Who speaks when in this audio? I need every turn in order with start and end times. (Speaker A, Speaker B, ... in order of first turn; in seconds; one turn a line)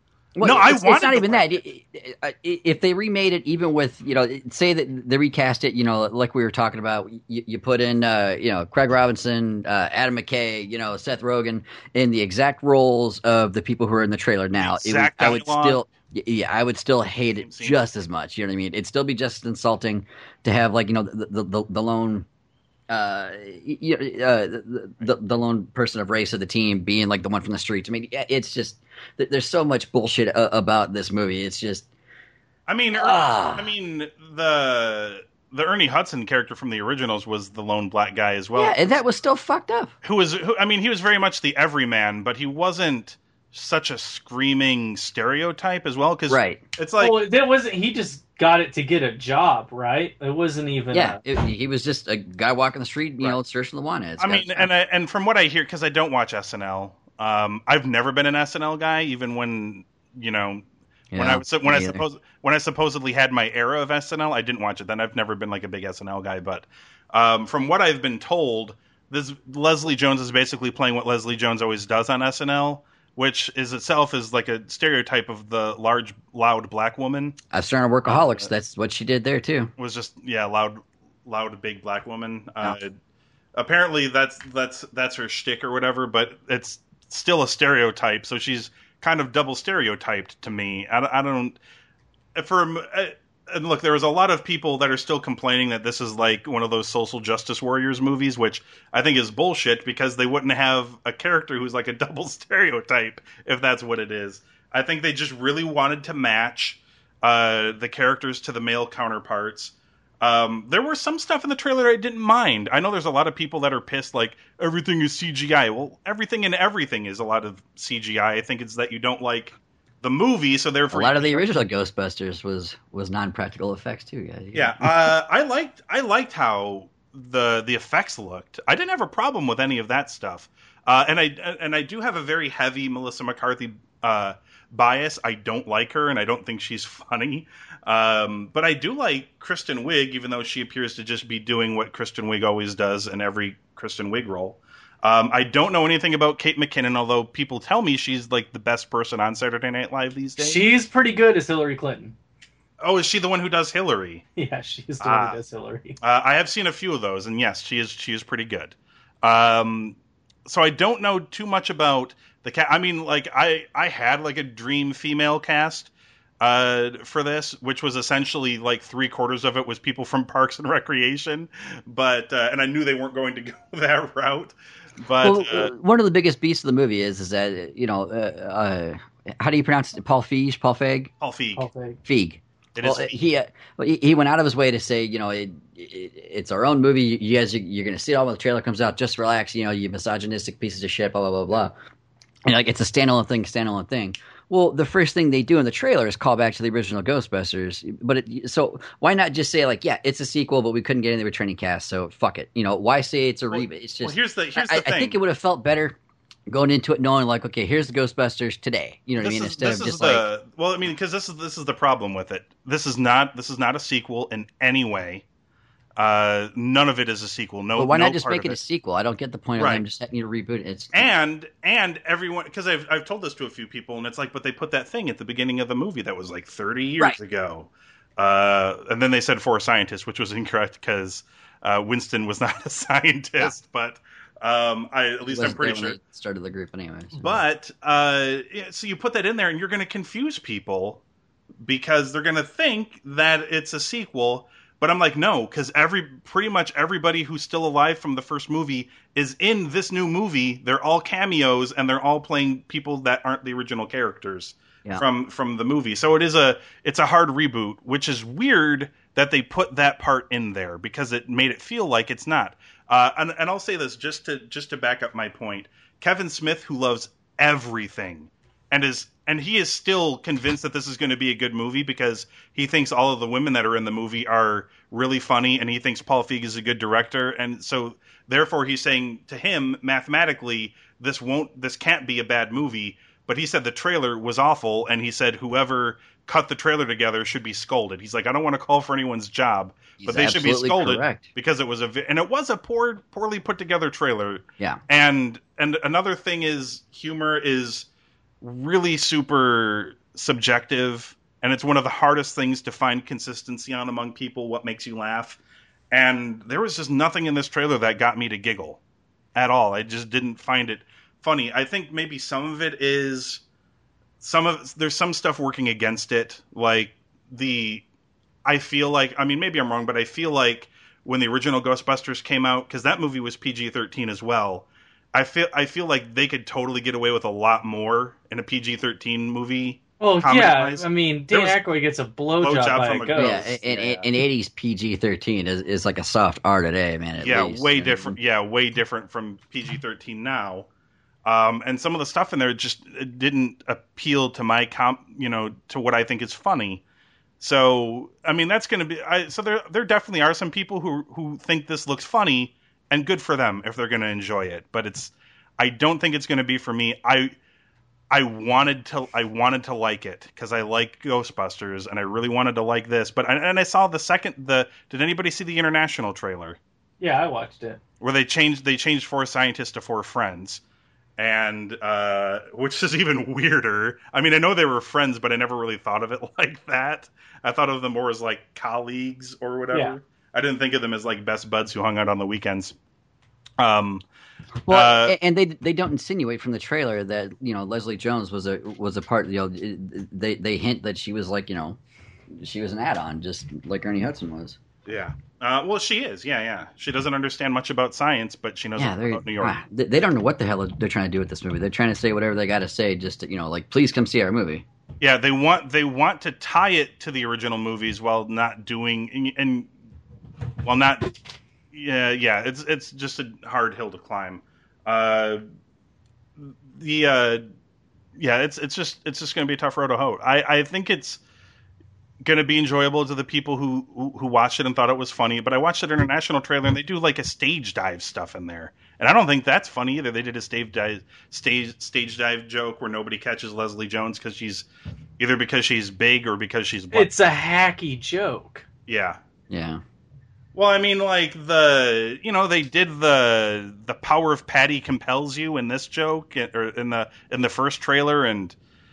Speaker A: 0.3-22.3
Speaker B: 0.4-1.6
Speaker B: 14.6-15.8
Speaker B: 17.4-17.9
Speaker A: 22.9-31.9
Speaker B: 32.7-39.0
Speaker A: 32.9-33.7
Speaker A: 38.5-39.9
Speaker B: 40.0-47.2
Speaker A: 46.3-46.6
Speaker C: 47.0-51.2
Speaker A: 50.9-54.7
Speaker B: 54.2-60.6
Speaker A: 61.1-62.0
Speaker B: 61.1-77.4
Speaker A: 77.5-79.7
Speaker B: 78.0-78.5
Speaker B: 79.8-82.9
Speaker B: 83.5-91.6
Speaker B: 92.3-121.5
Speaker A: 120.9-125.1
Speaker B: 124.5-150.6
Speaker C: 150.4-152.2
Speaker B: 152.8-154.2
Speaker C: 154.3-156.0
Speaker B: 155.0-155.4
Speaker B: 156.0-175.7
Speaker A: 175.2-181.1
Speaker B: 181.2-181.7
Speaker C: 181.6-182.0
Speaker A: 182.1-191.7
Speaker B: 182.8-183.2
Speaker A: 192.4-205.9
Speaker B: 203.5-205.2
Speaker A: 206.5-210.2
Speaker B: 209.2-215.2
Speaker B: 216.0-218.6
Speaker A: 217.7-221.1
Speaker B: 219.6-219.8
Speaker B: 220.9-236.0
Speaker A: 235.3-237.4
Speaker B: 237.1-241.0
Speaker B: 241.6-297.9
Speaker A: 290.0-291.3
Speaker B: 298.4-305.4
Speaker B: 305.9-308.8
Speaker B: 309.3-313.4
Speaker B: 314.2-317.8
Speaker B: 318.4-331.6
Speaker C: 330.0-333.4
Speaker B: 332.4-334.1
Speaker A: 333.1-338.2
Speaker B: 337.2-340.7
Speaker B: 341.2-346.8
Speaker B: 347.4-357.3
Speaker B: 358.1-366.6
Speaker C: 367.0-367.8
Speaker B: 368.0-370.6
Speaker B: 371.2-382.7
Speaker B: 383.6-384.0
Speaker A: 384.6-391.8
Speaker B: 384.7-385.1
Speaker A: 392.3-394.6
Speaker B: 394.9-399.5
Speaker A: 398.8-404.6
Speaker B: 405.0-409.7
Speaker B: 410.6-411.1
Speaker B: 411.7-415.4
Speaker B: 416.4-417.4
Speaker B: 418.2-421.2
Speaker B: 422.2-434.6
Speaker B: 435.2-437.1
Speaker C: 436.9-438.6
Speaker B: 438.9-439.2
Speaker A: 439.5-439.8
Speaker B: 440.5-448.6